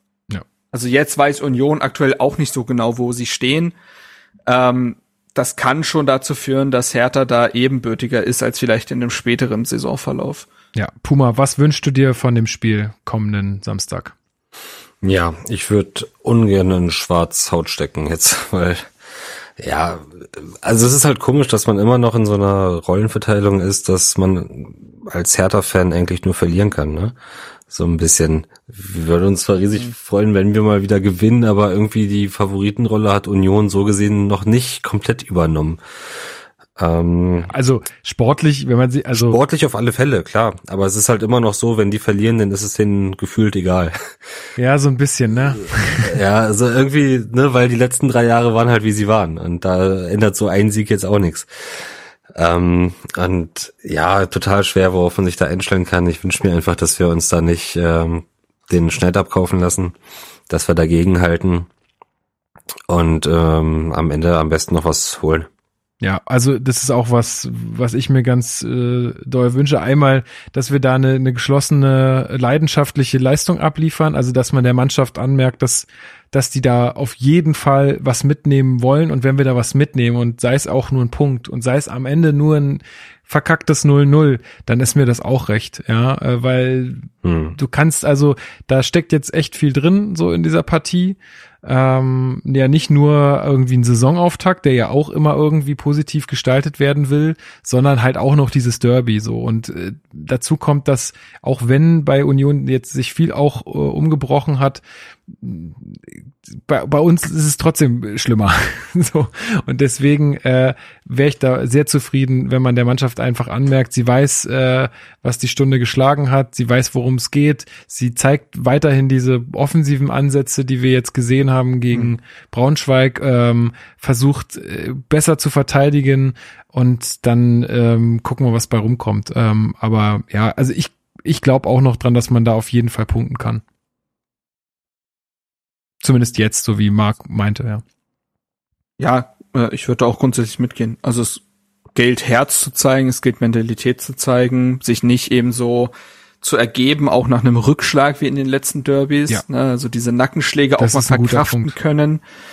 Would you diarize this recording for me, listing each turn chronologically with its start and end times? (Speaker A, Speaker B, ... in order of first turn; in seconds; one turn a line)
Speaker A: 0.7-3.7
Speaker A: 4.5-10.5
Speaker B: 10.8-14.1
Speaker C: 15.0-18.9
Speaker C: 19.6-27.2
Speaker C: 27.7-35.8
Speaker C: 36.8-37.5
Speaker B: 37.5-39.4
Speaker C: 39.1-44.0
Speaker B: 44.6-46.1
Speaker C: 46.0-60.0
Speaker C: 60.5-61.7
Speaker C: 62.9-65.5
Speaker B: 66.0-133.6
Speaker C: 87.2-87.6
Speaker B: 136.0-137.8
Speaker A: 139.0-141.4
Speaker A: 141.9-152.2
Speaker B: 150.8-151.8